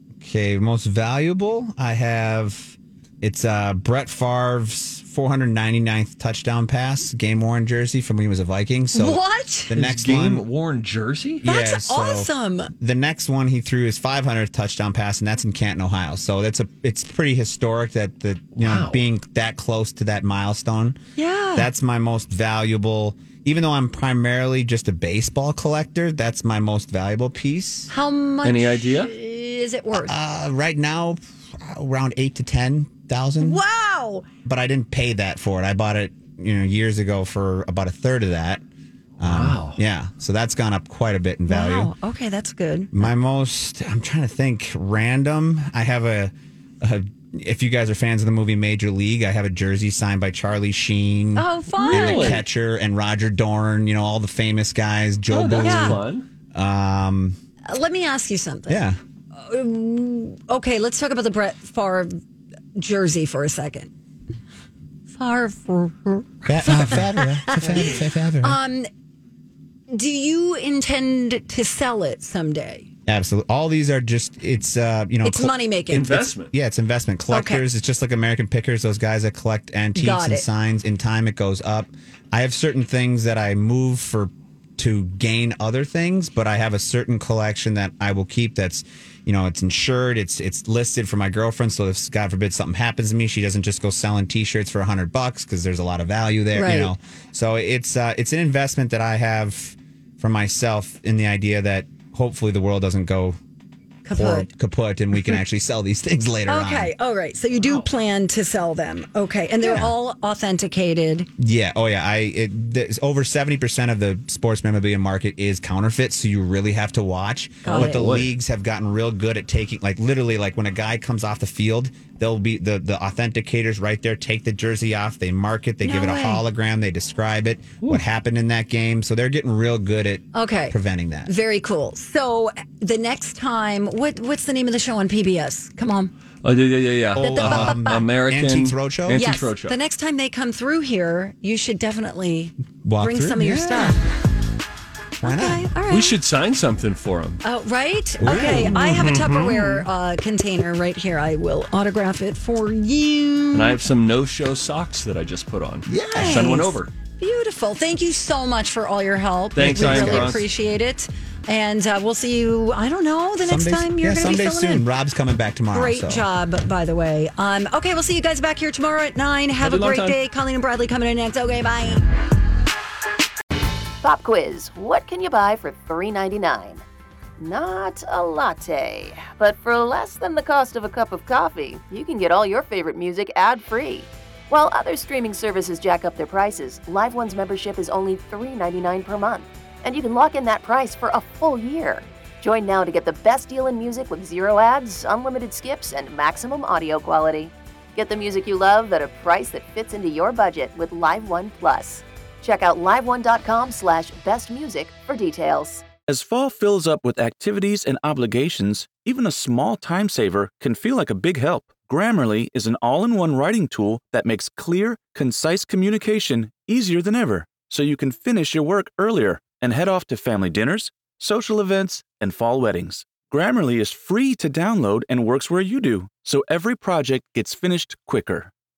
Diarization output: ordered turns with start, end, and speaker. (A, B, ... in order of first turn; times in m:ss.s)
0:00.2-0:10.4 A
0:08.9-0:09.7 B
0:09.7-0:11.4 C
0:11.4-0:21.0 A
0:11.4-0:12.7 B
0:18.6-0:19.0 C
0:21.2-0:21.7 B
0:21.5-0:27.9 A
0:27.9-0:30.1 B
0:28.4-0:29.1 C
0:29.9-0:33.6 A
0:33.4-0:34.2 B
0:34.4-0:38.6 A
0:39.2-0:41.9 A
0:39.2-0:39.8 C
0:41.5-0:43.1 B
0:42.9-0:57.4 A
0:51.4-0:52.4 B
0:51.8-0:52.4 C
0:55.3-0:56.2 C
0:55.6-0:56.0 B
0:57.7-1:02.2 B
0:58.7-0:59.0 A
1:02.7-1:03.9 B
1:05.1-1:08.9 B
1:06.4-1:08.6 A
1:09.9-1:12.9 B
1:13.0-1:43.4 A
1:15.2-1:16.2 B
1:15.9-1:16.5 C
1:17.3-1:17.6 B
1:19.9-1:20.4 B
1:36.5-1:36.9 B
1:44.0-1:44.5 B
1:44.1-1:46.9 A
1:46.5-1:51.3 B
1:49.6-1:49.9 A
1:51.4-2:11.3 A
1:57.6-1:58.2 B
1:57.7-1:58.3 C
2:05.8-2:06.4 B
2:10.3-2:10.7 B
2:11.3-2:16.1 B
2:16.4-2:19.8 C
2:17.1-2:19.3 A
2:17.2-2:18.0 B
2:19.1-2:24.0 B
2:22.8-2:24.0 A
2:25.2-2:25.7 A
2:25.2-2:26.1 B
2:25.9-2:27.4 C
2:27.4-2:33.8 B
2:28.2-2:29.2 A
2:28.2-2:29.8 C
2:33.5-2:36.9 C
2:35.9-2:36.6 A
2:36.0-2:44.8 B
2:39.6-2:40.4 C
2:39.6-2:40.4 A
2:43.4-2:46.2 A
2:45.7-2:52.0 B
2:49.6-2:50.2 C
2:54.0-2:56.8 D
2:57.4-3:25.8 D
3:26.1-3:48.5 E